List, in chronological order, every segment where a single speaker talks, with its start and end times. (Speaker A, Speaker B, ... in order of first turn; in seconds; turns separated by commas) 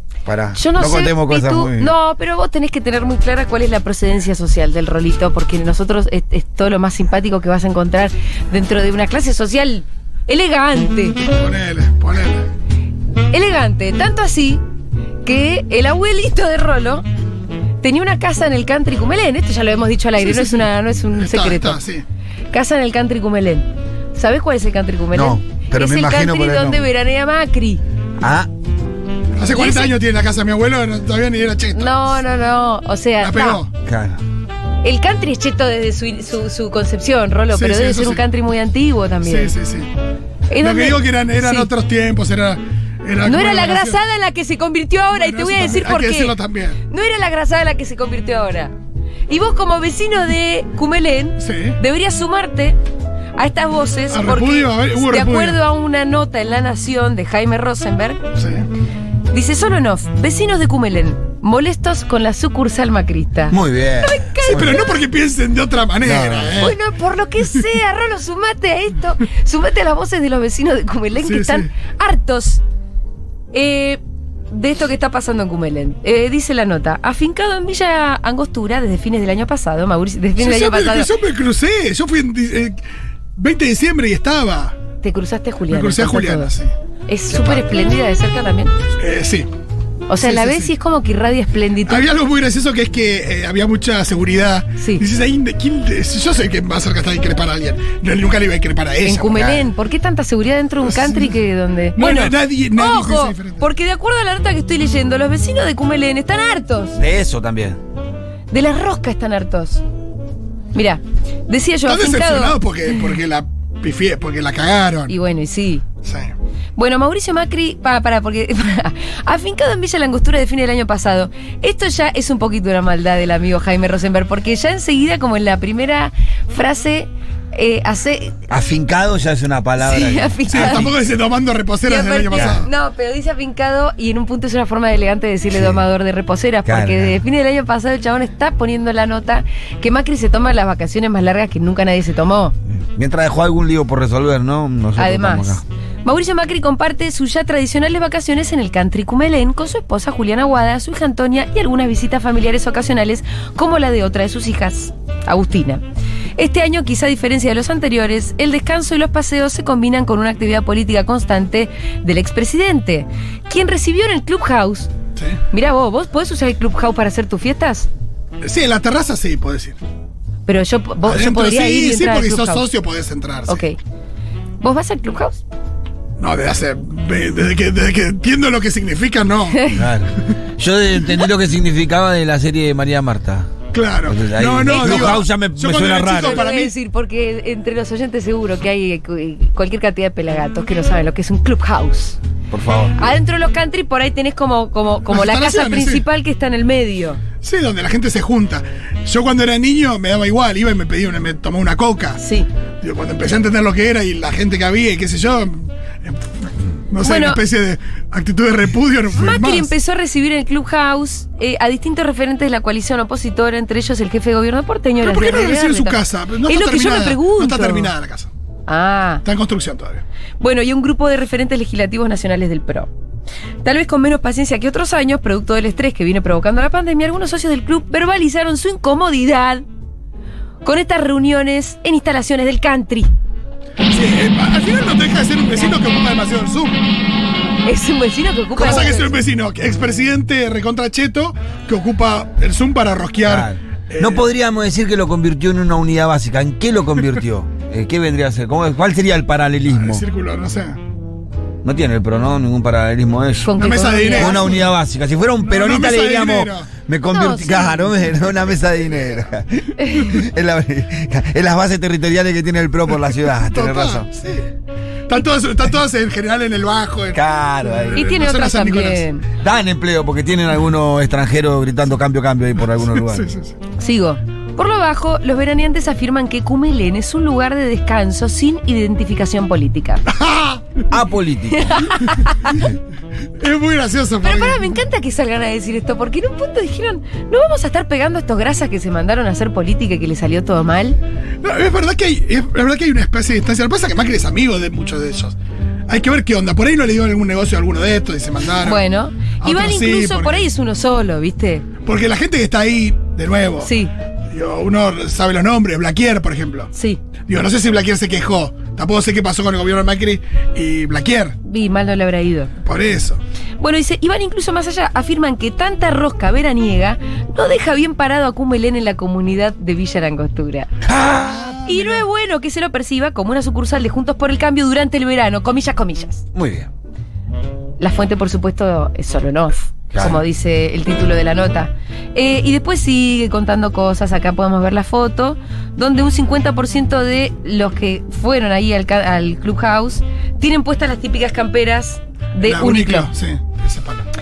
Speaker A: 0.2-1.9, Speaker B: 0.6-11.2, Speaker C: 11.2-12.5, Speaker B: 13.3-14.6, Speaker B: 15.2-17.0, Speaker B: 17.8-21.8, Speaker C: 20.2-22.0, Speaker B: 22.5-27.8, Speaker A: 25.1-26.9, Speaker A: 28.2-28.5, Speaker C: 29.4-32.0, Speaker B: 29.5-29.9, Speaker B: 31.7-33.6, Speaker C: 33.2-33.7, Speaker A: 33.8-34.2, Speaker B: 34.8-39.5, Speaker C: 37.5-38.2, Speaker C: 39.2-39.9, Speaker B: 40.5-41.7, Speaker C: 40.6-44.0, Speaker B: 43.2-46.4, Speaker C: 45.1-46.8, Speaker B: 46.9-48.7, Speaker B: 49.3-52.8, Speaker C: 51.4-51.8, Speaker B: 53.4-58.2, Speaker C: 54.1-55.6, Speaker C: 58.4-58.7, Speaker B: 59.3-65.0, Speaker A: 63.5-64.8, Speaker C: 64.5-66.8, Speaker A: 66.0-66.7, Speaker B: 66.6-72.6, Speaker C: 71.2-71.7, Speaker B: 73.5-74.0, Speaker B: 74.5-81.1, Speaker C: 80.4-82.8, Speaker C: 83.3-84.8, Speaker B: 85.0-86.5, Speaker C: 85.7-86.7, Speaker B: 87.1-88.7, Speaker C: 87.3-87.7, Speaker C: 89.0-89.5, Speaker B: 90.1-92.1, Speaker C: 90.2-90.7, Speaker C: 91.8-99.6, Speaker B: 94.8-95.0, Speaker B: 99.0-107.0, Speaker C: 100.8-101.4, Speaker C: 102.0-103.6, Speaker A: 107.0-107.8, Speaker B: 108.5-109.8, Speaker B: 110.7-112.6, Speaker C: 111.8-115.1, Speaker B: 115.1-115.8, Speaker C: 116.0-116.3, Speaker B: 116.8-128.4, Speaker A: 128.5-130.9, Speaker B: 129.8-130.9, Speaker C: 130.5-132.7, Speaker B: 131.8-142.6, Speaker A: 135.5-135.8, Speaker A: 136.6-137.2, Speaker A: 142.7-145.6, Speaker B: 144.9-155.8, Speaker B: 156.4-164.9, Speaker B: 165.5-167.9, Speaker C: 168.4-169.8, Speaker B: 170.4-172.6, Speaker C: 171.0-173.6, Speaker B: 173.5-173.8, Speaker B: 174.6-175.4, Speaker C: 176.2-179.7, Speaker A: 179.7-183.5, Speaker C: 183.7-186.7, Speaker A: 184.0-186.5, Speaker B: 184.6-185.2, Speaker B: 186.2-192.2, Speaker A: 192.5-193.0, Speaker B: 193.0-197.2, Speaker C: 195.1-196.0, Speaker C: 197.4-202.2, Speaker B: 202.2-202.5, Speaker C: 202.8-209.7, Speaker B: 207.0-207.4, Speaker B: 209.1-217.9, Speaker C: 215.0-218.3, Speaker B: 218.7-219.2, Speaker C: 219.2-220.0, Speaker B: 220.4-222.9, Speaker B: 223.6-229.6, Speaker B: 230.6-233.1, Speaker C: 233.9-236.8, Speaker B: 237.6-239.1, Speaker C: 238.6-244.2, Speaker A: 243.2-250.0, Speaker C: 249.7-250.8, Speaker A: 251.6-264.1, Speaker B: 253.4-254.4, Speaker C: 253.6-254.7, Speaker C: 255.4-256.7, Speaker B: 257.1-257.8, Speaker C: 258.9-259.2, Speaker B: 259.8-260.2, Speaker C: 263.4-264.5, Speaker C: 265.1-269.0, Speaker A: 267.1-268.1, Speaker B: 267.9-269.2, Speaker A: 269.4-273.3, Speaker C: 273.0-273.5, Speaker B: 273.8-280.0, Speaker C: 280.1-280.8, Speaker A: 280.9-281.9, Speaker B: 281.6-282.6, Speaker C: 283.4-284.8, Speaker B: 284.2-291.0, Speaker C: 291.4-295.4, Speaker C: 295.9-298.8, Speaker B: 298.6-301.6, Speaker C: 299.4-300.4, Speaker C: 301.8-303.7, Speaker B: 303.6-303.9, Speaker C: 304.3-306.7, Speaker B: 306.7-307.0, Speaker C: 307.2-311.4, Speaker B: 311.4-312.5, Speaker C: 312.6-313.2, Speaker B: 313.6-320.7, Speaker A: 320.8-321.6, Speaker C: 321.3-322.0, Speaker B: 321.6-326.2, Speaker A: 326.3-326.7, Speaker B: 327.8-343.1, Speaker A: 329.9-330.2, Speaker C: 342.4-344.1